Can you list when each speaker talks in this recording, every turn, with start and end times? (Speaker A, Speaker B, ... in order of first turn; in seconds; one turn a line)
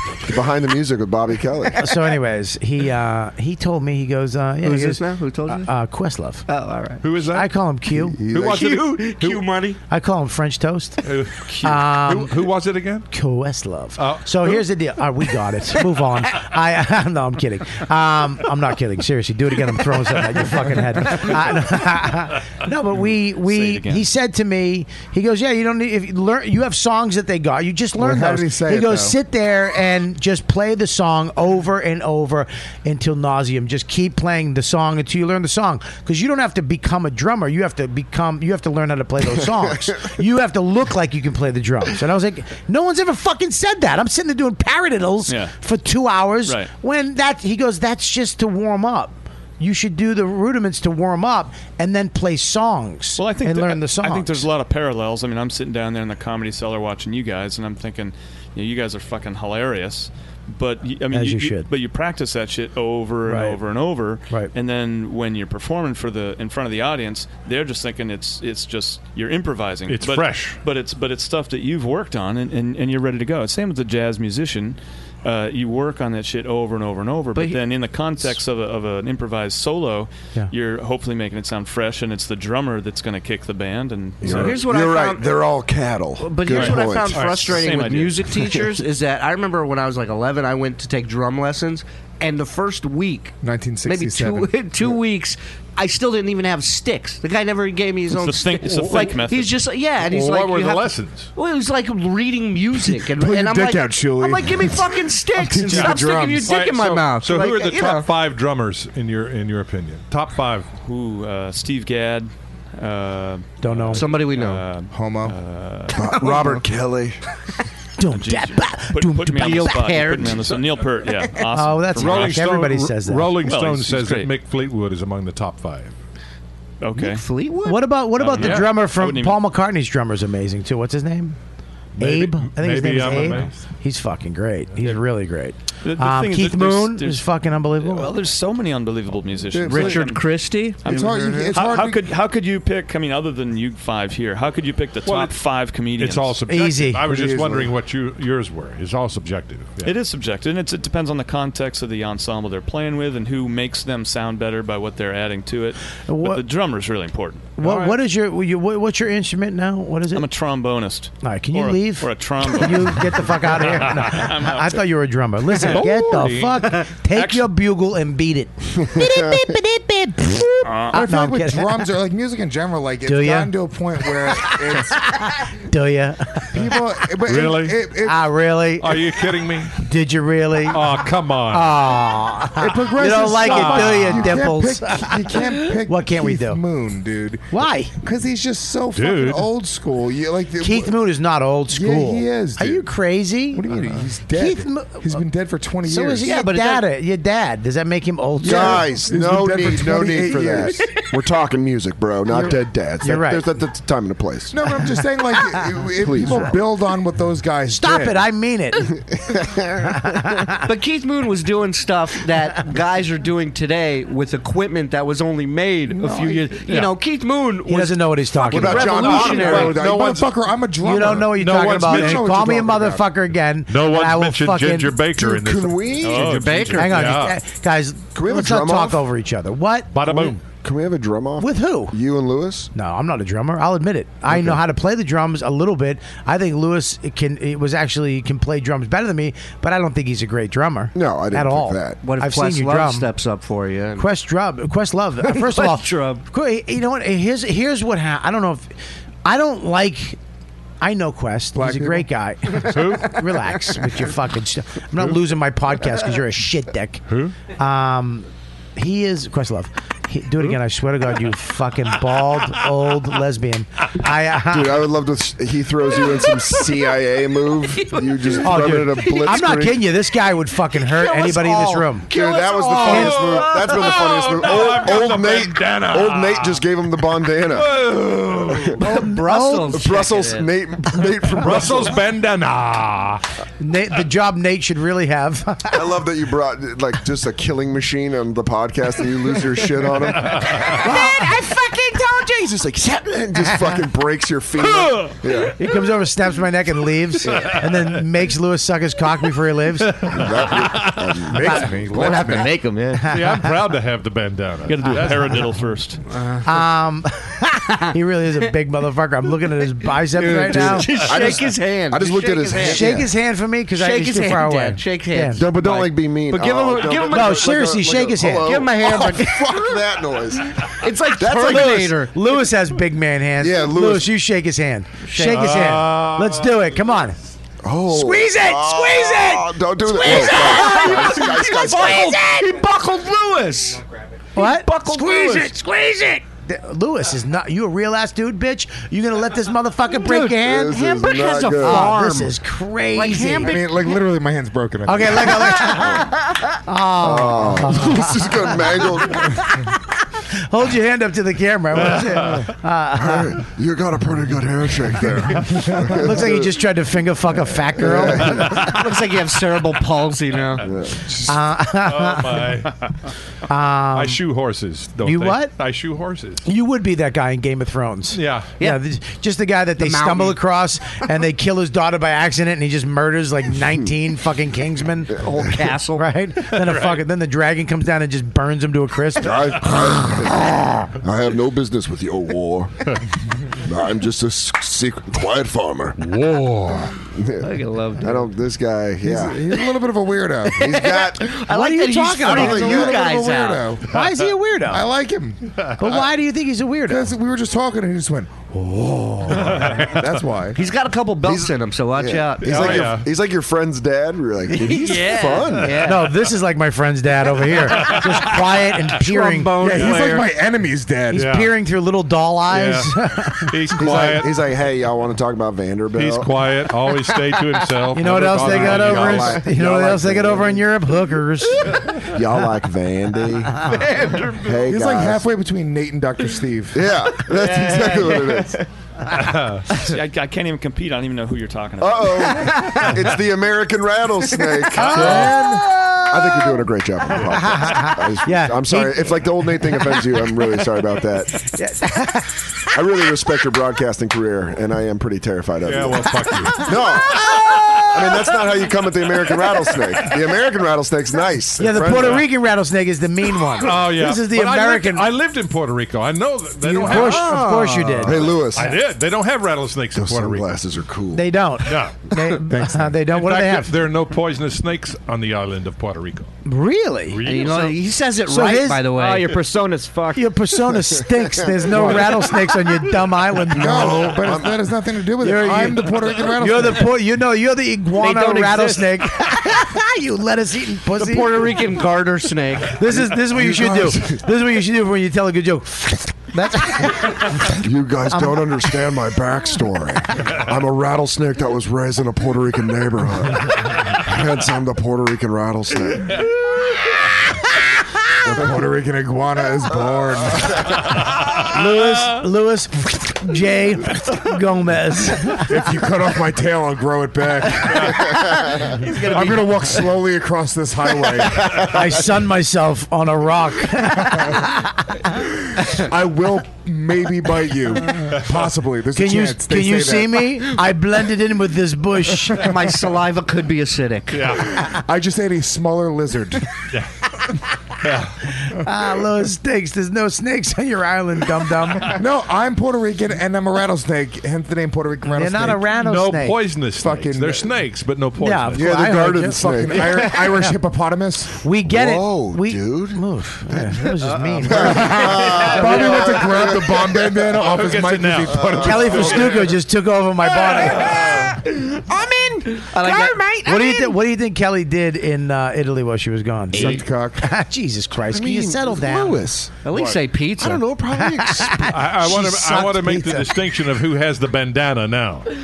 Speaker A: 0.2-1.8
Speaker B: 1.8-6.4
Speaker C: 4.6-5.7
Speaker C: 6.5-7.1
Speaker D: 7.0-7.5
Speaker B: 7.3-8.2
Speaker A: 8.0-8.8
Speaker D: 8.3-9.5
Speaker C: 8.4-9.8
Speaker B: 9.9-11.0
Speaker D: 11.0-13.1
Speaker B: 11.6-12.4
Speaker B: 13.1-54.5
Speaker D: 14.0-14.6
Speaker E: 23.4-24.1
Speaker F: 27.9-29.1
Speaker E: 45.3-45.5
Speaker E: 53.2-84.6
Speaker B: 61.1-61.7
Speaker B: 63.2-63.6
Speaker D: 69.9-70.6
Speaker C: 77.3-77.6
Speaker A: 84.2-87.3
Speaker C: 84.2-85.4
Speaker C: 86.2-108.1
Speaker E: 86.5-88.5
Speaker D: 87.1-87.5
Speaker F: 93.4-95.0
Speaker E: 98.1-99.6
Speaker D: 100.0-101.3
Speaker F: 103.1-106.5
Speaker E: 105.7-106.1
Speaker D: 106.4-110.7
Speaker E: 110.8-116.3
Speaker B: 113.6-114.1
Speaker C: 113.9-114.6
Speaker F: 114.9-115.3
Speaker A: 115.9-117.2
Speaker B: 118.0-119.8
Speaker E: 118.1-122.4
Speaker C: 119.3-120.7
Speaker B: 121.5-123.4
Speaker D: 122.0-125.9
Speaker E: 123.4-124.3
Speaker E: 126.8-127.2
Speaker C: 127.0-127.9
Speaker B: 127.6-131.3
Speaker E: 128.2-129.4
Speaker D: 128.4-128.7
Speaker D: 132.0-133.6
Speaker B: 132.0-138.1
Speaker E: 135.8-137.2
Speaker E: 137.8-140.3
Speaker F: 139.5-140.1
Speaker C: 139.6-141.5
Speaker E: 140.8-146.3
Speaker F: 140.8-142.1
Speaker D: 145.0-145.4
Speaker D: 146.0-149.9
Speaker B: 146.5-147.0
Speaker F: 147.0-147.7
Speaker E: 149.8-157.5
Speaker B: 156.1-156.4
Speaker B: 157.6-160.2
Speaker D: 157.6-158.0
Speaker E: 160.1-164.8
Speaker B: 161.2-171.8
Speaker D: 165.6-166.8
Speaker E: 167.1-167.4
Speaker A: 168.8-169.6
Speaker E: 170.6-171.0
Speaker F: 170.9-175.2
Speaker B: 173.0-173.5
Speaker B: 175.1-176.7
Speaker F: 176.5-178.3
Speaker D: 177.2-177.8
Speaker B: 178.0-179.1
Speaker D: 178.8-179.7
Speaker B: 179.7-180.9
Speaker D: 180.7-181.8
Speaker B: 181.5-186.6
Speaker F: 182.6-191.0
Speaker D: 183.2-184.3
Speaker B: 187.5-187.9
Speaker D: 188.9-189.4
Speaker B: 190.6-193.7
Speaker F: 191.7-192.9
Speaker F: 193.5-196.4
Speaker B: 194.3-195.2
Speaker B: 195.8-198.8
Speaker C: 196.2-196.8
Speaker F: 198.4-200.8
Speaker A: 198.4-204.6
Speaker B: 202.3-203.4
Speaker F: 204.5-208.2
Speaker A: 206.0-206.6
Speaker B: 207.7-208.9
Speaker A: 209.3-209.6
Speaker C: 210.6-219.8
Speaker F: 215.9-216.6
Speaker D: 216.7-216.9
Speaker B: 217.7-219.4
Speaker A: 218.5-220.0
Speaker D: 218.6-220.3
Speaker F: 219.4-223.1
Speaker B: 220.8-224.9
Speaker D: 221.2-222.4
Speaker D: 223.7-226.0
Speaker A: 225.1-226.7
Speaker E: 226.0-226.8
Speaker C: 226.1-227.0
Speaker B: 226.7-229.9
Speaker D: 226.8-227.4
Speaker A: 228.1-229.0
Speaker D: 229.9-230.4
Speaker A: 230.0-232.7
Speaker B: 231.4-231.9
Speaker B: 232.7-243.1
Speaker A: 234.3-234.6
Speaker A: 240.9-242.0
Speaker C: 242.0-244.1
Speaker B: 244.0-248.7
Speaker C: 245.2-246.2
Speaker B: 249.2-250.2
Speaker B: 250.8-264.9
Speaker F: 251.6-252.0
Speaker D: 252.7-253.1
Speaker D: 257.1-257.3
Speaker A: 264.5-269.8
Speaker C: 267.8-269.6
Speaker B: 268.4-272.1
Speaker C: 270.7-274.0
Speaker A: 272.1-278.8
Speaker D: 272.8-276.6
Speaker B: 272.8-273.2
Speaker D: 277.4-278.7
Speaker B: 278.8-279.9
Speaker C: 278.8-280.5
Speaker A: 279.7-282.0
Speaker D: 281.3-283.2
Speaker B: 283.6-285.8
Speaker A: 285.7-291.0
Speaker D: 290.2-290.8
Speaker G: 290.7-292.7
Speaker A: 292.6-295.6
Speaker D: 294.6-295.1
Speaker B: 295.6-300.1
Speaker D: 297.2-297.9
Speaker D: 299.9-301.1
Speaker A: 300.1-301.8
Speaker F: 301.2-302.5
Speaker C: 301.9-302.6
Speaker H: 301.9-303.1
Speaker D: 303.1-305.5
Speaker B: 303.1-303.5
Speaker E: 304.7-306.0
Speaker C: 306.1-306.4
Speaker B: 306.4-310.9
Speaker C: 310.1-313.0
Speaker A: 310.5-313.1
Speaker B: 312.6-315.4
Speaker C: 313.7-317.6
Speaker A: 315.3-321.9
Speaker B: 317.1-319.0
Speaker C: 318.4-319.5
Speaker C: 320.8-322.1
Speaker B: 321.4-327.1
Speaker A: 323.4-324.1
Speaker C: 325.0-325.8
Speaker D: 325.3-326.6
Speaker A: 327.6-332.2
Speaker B: 327.9-332.1
Speaker C: 330.0-335.9
Speaker B: 334.4-343.6
Speaker C: 340.0-342.3
Speaker A: 340.3-342.0
Speaker C: 342.9-343.8
Speaker F: 343.4-345.5
Speaker B: 344.9-348.6
Speaker A: 345.7-346.1
Speaker A: 347.0-349.5
Speaker B: 349.1-349.8
Speaker B: 350.5-353.4
Speaker D: 351.8-352.4
Speaker A: 352.9-356.6
Speaker F: 355.5-355.7
Speaker B: 355.7-358.6
Speaker A: 357.8-358.7
Speaker C: 358.5-360.7
Speaker A: 360.6-361.1
Speaker B: 361.2-362.6
Speaker D: 361.8-362.7
Speaker B: 363.5-364.2
Speaker D: 363.9-366.4
Speaker B: 365.0-365.5
Speaker B: 366.4-375.2
Speaker D: 368.1-368.5
Speaker C: 369.8-370.4
Speaker C: 375.2-376.0
Speaker B: 375.9-379.7
Speaker D: 376.5-377.0
Speaker A: 379.2-383.0
Speaker A: 383.6-386.1
Speaker D: 386.0-386.9
Speaker A: 387.1-389.4
Speaker C: 387.4-388.3
Speaker F: 389.0-390.7
Speaker A: 390.6-391.3
Speaker C: 390.6-393.7
Speaker B: 391.4-393.0
Speaker F: 392.2-393.8
Speaker A: 392.3-393.0
Speaker B: 393.9-394.9
Speaker F: 394.7-395.5
Speaker B: 395.8-397.1
Speaker F: 396.9-398.6
Speaker A: 398.9-399.3
Speaker F: 399.3-400.6
Speaker D: 399.4-400.0
Speaker C: 400.5-402.9
Speaker A: 401.2-405.8
Speaker D: 402.4-403.1
Speaker C: 404.7-406.1
Speaker B: 405.8-409.9
Speaker D: 407.8-408.4
Speaker C: 409.0-410.2
Speaker F: 409.6-411.3
Speaker D: 409.7-410.1
Speaker B: 411.1-414.0
Speaker D: 411.1-411.5
Speaker D: 412.5-414.4
Speaker A: 413.8-416.4
Speaker D: 415.9-419.4
Speaker B: 417.9-421.8
Speaker A: 418.4-420.6
Speaker A: 422.0-425.2
Speaker C: 423.6-424.6
Speaker F: 424.7-426.9
Speaker A: 426.7-428.6
Speaker C: 427.3-428.3
Speaker H: 427.5-428.0
Speaker D: 429.1-429.7
Speaker E: 429.7-432.4
Speaker A: 431.8-435.5
Speaker C: 432.5-432.8
Speaker B: 434.8-435.7
Speaker D: 434.9-435.3
Speaker F: 435.0-435.6
Speaker A: 436.1-441.5
Speaker B: 437.3-439.2
Speaker B: 441.6-442.3
Speaker A: 442.7-452.3
Speaker D: 445.6-446.7
Speaker B: 447.4-447.9
Speaker B: 451.6-455.1
Speaker D: 453.6-457.5
Speaker B: 456.7-458.2
Speaker C: 456.8-458.3
Speaker A: 458.0-458.8
Speaker D: 458.5-460.5
Speaker A: 459.9-461.3
Speaker B: 461.1-463.7
Speaker D: 461.6-462.0
Speaker F: 462.5-462.9
Speaker D: 463.1-466.3
Speaker B: 466.4-467.6
Speaker D: 467.1-467.8
Speaker C: 467.2-469.5
Speaker B: 468.3-468.9
Speaker H: 468.9-470.3
Speaker B: 470.1-474.2
Speaker A: 471.3-472.0
Speaker F: 471.7-472.3
Speaker A: 473.5-474.6
Speaker F: 473.5-476.9
Speaker B: 475.2-481.6
Speaker C: 478.0-478.9
Speaker C: 480.9-482.9
Speaker B: 482.7-487.5
Speaker A: 483.3-484.2
Speaker A: 487.5-496.2
Speaker B: 488.1-488.5
Speaker F: 498.3-500.6
Speaker B: 501.5-505.5
Speaker F: 505.4-508.3
Speaker C: 508.5-509.9
Speaker F: 508.9-511.6
Speaker B: 511.6-514.7
Speaker F: 515.6-520.3
Speaker B: 518.9-522.5
Speaker C: 522.4-524.4
Speaker D: 524.1-524.6
Speaker F: 524.7-526.5
Speaker D: 527.8-528.2
Speaker B: 528.4-531.9
Speaker F: 531.9-535.7
Speaker B: 535.1-536.4
Speaker D: 535.7-538.7
Speaker F: 536.8-537.5
Speaker B: 538.2-540.6
Speaker A: 538.6-540.1
Speaker F: 539.1-541.4
Speaker B: 541.4-545.9
Speaker A: 541.6-543.9
Speaker C: 544.2-544.4
Speaker A: 544.4-547.2
Speaker F: 544.5-549.4
Speaker C: 545.4-545.8
Speaker D: 547.3-549.5
Speaker A: 548.3-549.2
Speaker B: 548.6-551.2
Speaker G: 550.2-554.0
Speaker C: 552.7-553.2
Speaker B: 553.4-559.3
Speaker F: 556.5-557.2
Speaker A: 558.1-559.8
Speaker C: 559.6-560.9
Speaker A: 560.4-561.6
Speaker B: 561.0-563.3
Speaker D: 561.6-565.3